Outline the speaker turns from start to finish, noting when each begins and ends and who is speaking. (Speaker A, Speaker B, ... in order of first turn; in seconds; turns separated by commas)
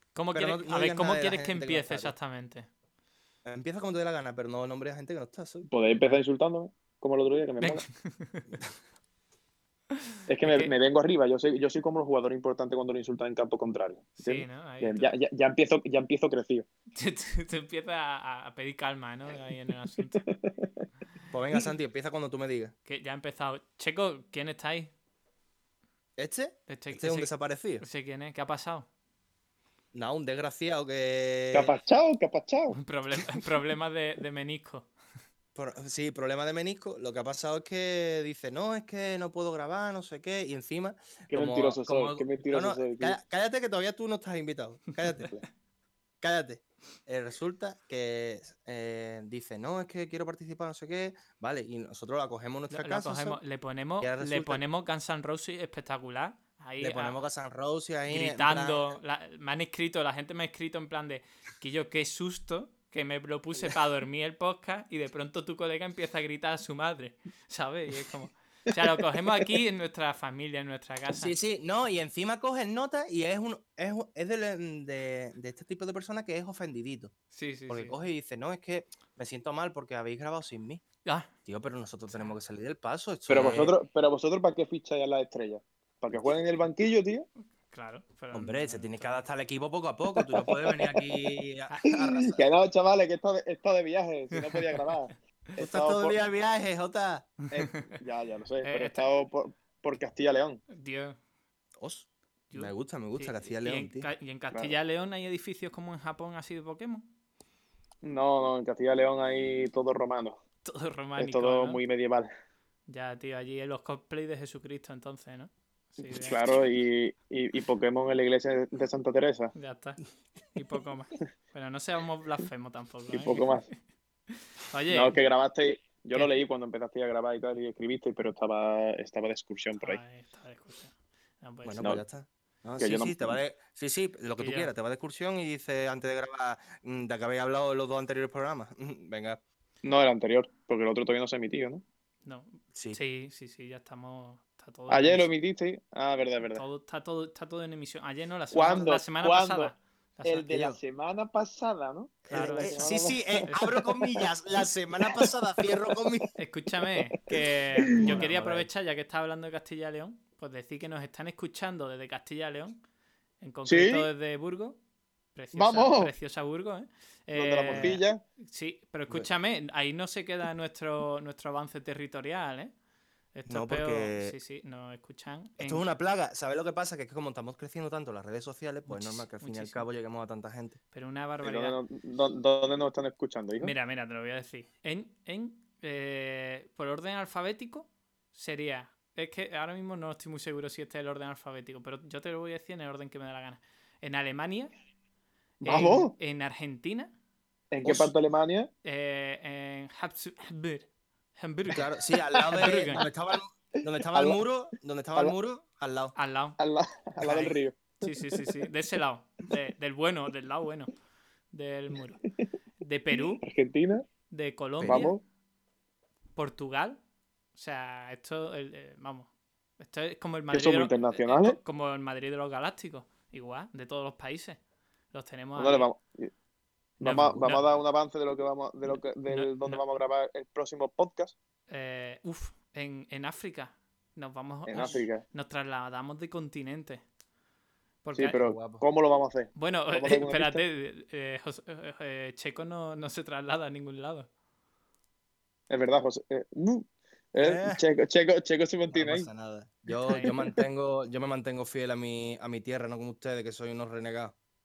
Speaker A: 0.1-2.7, Speaker B: 0.3-2.1, Speaker B: 3.4-5.7, Speaker C: 5.7-7.8, Speaker A: 5.9-6.2, Speaker A: 7.6-8.6, Speaker C: 10.3-16.7, Speaker A: 10.4-10.7, Speaker A: 14.2-15.1, Speaker A: 16.9-20.3, Speaker C: 20.2-20.8, Speaker B: 21.3-22.7, Speaker A: 22.9-24.9, Speaker B: 26.2-27.8, Speaker A: 26.7-28.9, Speaker B: 29.9-31.7, Speaker C: 31.5-32.8, Speaker A: 32.7-34.9, Speaker B: 35.5-45.4, Speaker C: 41.3-43.2, Speaker B: 46.2-53.4, Speaker A: 52.7-57.1, Speaker B: 54.0-54.6, Speaker B: 56.8-59.0, Speaker A: 58.1-71.3, Speaker C: 68.7-69.6, Speaker B: 71.1-77.1, Speaker A: 77.3-78.0, Speaker B: 77.7-80.8, Speaker A: 81.0-81.3, Speaker B: 81.5-83.7, Speaker A: 82.1-82.4, Speaker C: 83.3-87.3, Speaker A: 87.7-89.2, Speaker B: 88.3-92.5, Speaker C: 90.1-91.0, Speaker A: 91.7-92.0, Speaker C: 91.8-96.2, Speaker A: 94.3-94.6, Speaker B: 95.6-97.3, Speaker A: 97.5-98.0, Speaker C: 97.5-100.6, Speaker A: 98.6-99.0, Speaker A: 100.7-101.2, Speaker B: 101.8-104.1, Speaker A: 102.5-107.1, Speaker C: 108.0-110.4, Speaker A: 110.6-111.8, Speaker C: 111.2-112.3, Speaker A: 112.9-116.4, Speaker C: 116.0-119.5, Speaker A: 119.5-120.0, Speaker A: 120.5-123.6, Speaker C: 123.1-123.6, Speaker A: 124.6-125.2, Speaker C: 124.9-130.0, Speaker A: 129.8-132.0, Speaker B: 131.6-139.4, Speaker C: 132.8-133.4, Speaker A: 134.4-134.7, Speaker C: 139.8-141.8, Speaker A: 142.2-145.3, Speaker B: 142.7-143.0, Speaker C: 144.9-146.6, Speaker A: 146.5-150.5, Speaker C: 148.5-149.7, Speaker C: 150.2-154.3, Speaker B: 150.5-150.8, Speaker B: 152.2-156.3, Speaker A: 152.3-152.9, Speaker A: 153.4-153.8, Speaker C: 155.0-155.3, Speaker A: 156.3-162.8, Speaker C: 156.9-158.2, Speaker B: 157.9-158.7, Speaker A: 163.4-164.8, Speaker C: 163.7-164.1, Speaker A: 165.3-172.7, Speaker C: 165.5-166.1, Speaker C: 167.3-168.2, Speaker B: 167.7-167.9, Speaker A: 173.3-175.9, Speaker B: 173.5-174.3, Speaker B: 175.6-180.8, Speaker A: 178.9-179.8, Speaker A: 180.9-181.8, Speaker C: 181.4-183.7, Speaker A: 183.6-194.7, Speaker C: 195.6-196.1, Speaker A: 195.6-197.1, Speaker C: 197.7-198.7, Speaker B: 197.8-198.1, Speaker A: 198.8-203.0, Speaker B: 201.7-206.1, Speaker C: 202.4-203.0, Speaker C: 203.8-204.4, Speaker A: 206.1-206.6, Speaker C: 206.6-208.7, Speaker A: 207.2-210.9, Speaker A: 211.5-212.3, Speaker A: 212.8-213.4, Speaker C: 213.1-214.1, Speaker A: 214.3-215.2, Speaker B: 214.8-215.1, Speaker C: 214.9-215.2, Speaker A: 216.3-217.0, Speaker A: 217.5-224.6, Speaker C: 220.5-221.6, Speaker A: 225.1-225.9, Speaker C: 225.6-226.3, Speaker C: 227.0-231.3, Speaker A: 227.0-227.7, Speaker A: 229.2-229.8, Speaker A: 231.7-237.0, Speaker C: 234.7-235.2, Speaker A: 238.0-238.4, Speaker C: 238.1-240.6, Speaker B: 238.4-238.8, Speaker A: 239.6-244.3, Speaker C: 245.7-249.3, Speaker B: 247.4-247.8, Speaker B: 248.9-254.3, Speaker A: 250.0-250.4